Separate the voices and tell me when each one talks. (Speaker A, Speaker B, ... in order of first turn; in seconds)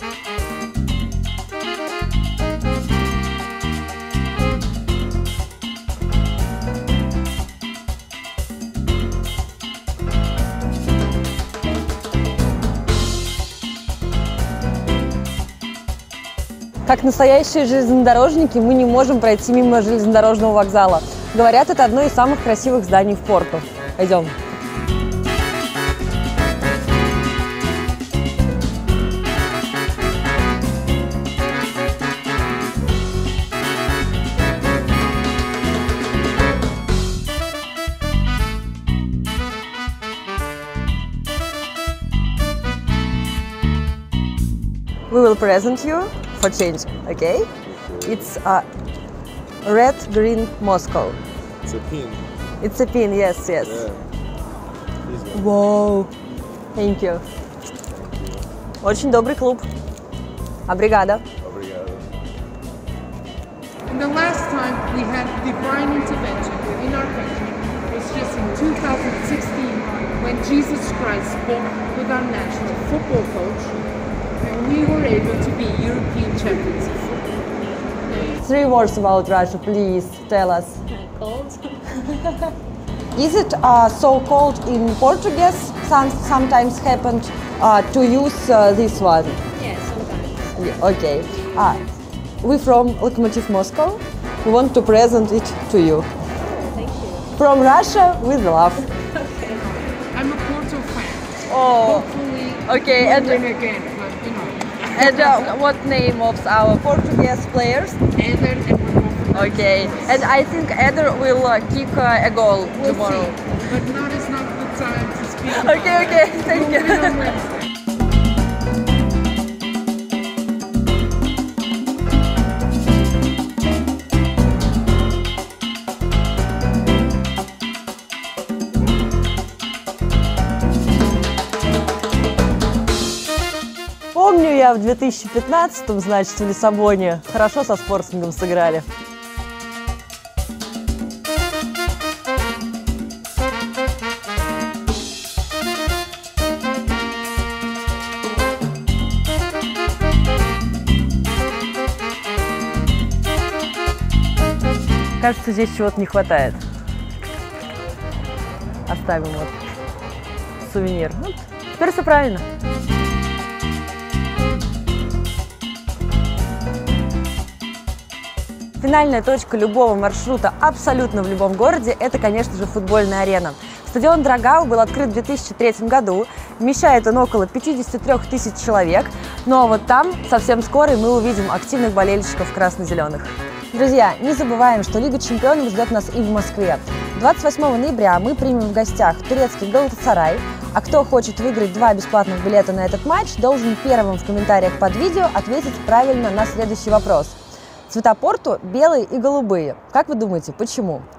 Speaker A: 16.8-24.3, 45.1-47.5, 48.0-48.6, 49.6-51.2, 52.6-53.9, 55.3-56.1, 56.7-57.2, 58.8-59.6, 60.7-61.2, 78.4-80.8, 83.1-89.4, 90.5-91.8, 92.4-96.1, 97.3-98.9, 101.5-102.1, 102.6-103.5, 104.9-108.0, 109.3-113.4, 115.5-117.3, 134.1-138.8, 155.2-156.6, 158.8-159.6, 160.6-162.4, 168.8-197.4, 197.9-201.1
Speaker B: 47.7-48.2, 51.6-52.2, 53.6-54.0, 55.0-55.5, 57.9-58.4, 61.4-62.0
Speaker C: 63.9-73.8, 74.4-77.2, 100.0-105.1, 108.2-110.2, 112.8-117.5
Speaker D: 80.9-81.8, 89.5-90.5, 96.5-97.3, 99.3-99.6